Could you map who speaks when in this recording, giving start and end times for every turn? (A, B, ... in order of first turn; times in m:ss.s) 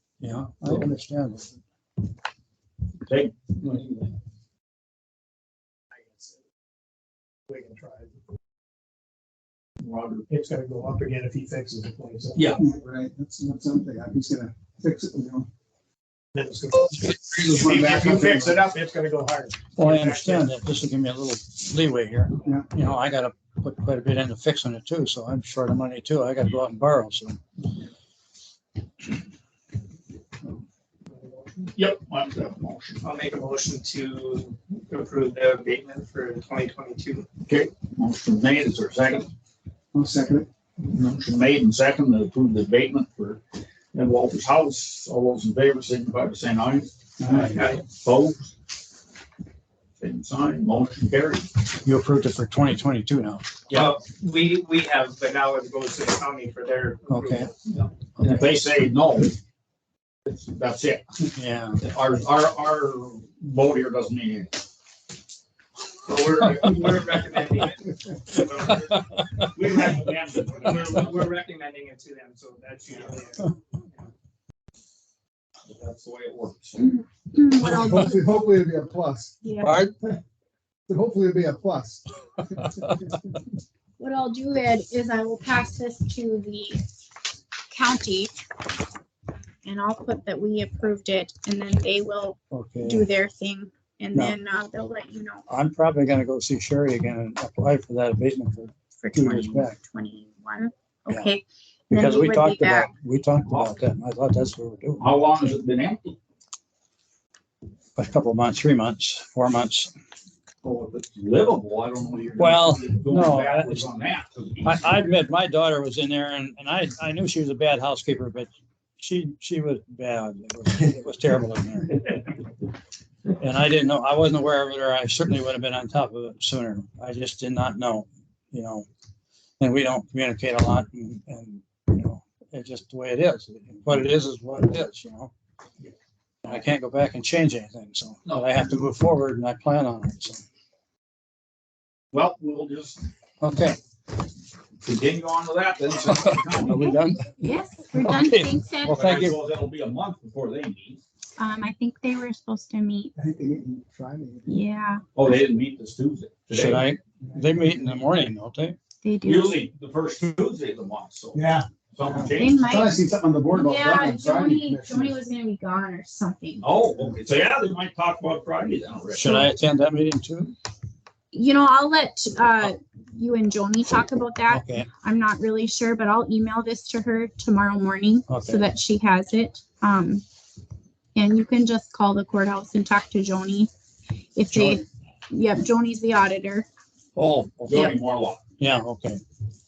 0:00.2-0:01.5 A
0:03.0-0:04.1 B
0:07.5-0:08.1 C
0:09.8-0:10.3 B
0:10.3-0:12.6 C
0:12.3-0:12.6 B
0:12.6-0:15.5 D
0:16.3-0:17.1 C
0:17.2-0:18.6 D
0:17.8-0:20.5 C
0:19.8-0:27.4 A
0:31.2-0:31.6 E
0:31.7-0:33.0 B
0:33.0-0:37.2 E
0:37.4-0:39.3 B
0:39.9-0:40.5 D
0:40.8-0:43.4 B
0:43.9-0:48.5 B
0:47.2-0:47.9 E
0:50.0-0:51.5 B
0:51.8-0:53.5 A
0:53.7-0:57.9 E
0:57.1-0:57.5 A
0:58.2-0:59.4 B
1:00.2-1:01.0 B
1:01.4-1:01.8 A
1:01.8-1:04.6 B
1:06.0-1:14.1 E
1:09.4-1:11.2 B
1:15.6-1:16.8 B
1:16.8-1:18.3 F
1:17.8-1:19.3 D
1:19.4-1:19.8 F
1:19.6-1:19.9 A
1:20.9-1:22.0 D
1:24.0-1:26.8 F
1:27.7-1:28.3 F
1:29.6-1:35.4 F
1:32.5-1:33.0 A
1:35.5-1:39.8 A
1:39.0-1:42.9 F
1:41.9-1:45.0 A
1:43.4-1:43.7 B
1:45.0-1:46.2 B
1:48.0-1:49.9 A
1:50.6-1:54.8 B
1:52.4-1:53.8 A
1:54.6-2:02.1 A
2:03.4-2:08.9 A
2:09.6-2:15.3 A
2:16.4-2:20.4 A
2:22.1-2:23.0 B
2:23.4-2:23.8 A
2:24.8-2:26.9 B
2:26.0-2:27.4 A
2:27.4-2:29.1 F
2:28.0-2:29.4 A
2:28.8-2:31.0 B
2:31.4-2:33.1 F
2:33.2-2:34.5 D
2:34.4-2:35.0 F
2:35.1-2:36.8 B
2:36.5-2:38.8 A
2:39.0-2:39.6 F
2:39.2-2:42.7 B
2:41.3-2:41.7 D
2:42.3-2:46.7 F
2:42.7-2:45.2 D
2:46.6-2:49.3 B
2:49.1-2:50.5 A
2:51.3-3:00.2 F
2:54.5-2:54.9 A
2:58.3-2:58.7 A
3:01.2-3:03.7 F
3:04.3-3:06.7 F
3:04.5-3:04.8 A
3:07.2-3:08.4 B
3:07.2-3:07.9 A
3:08.6-3:09.2 A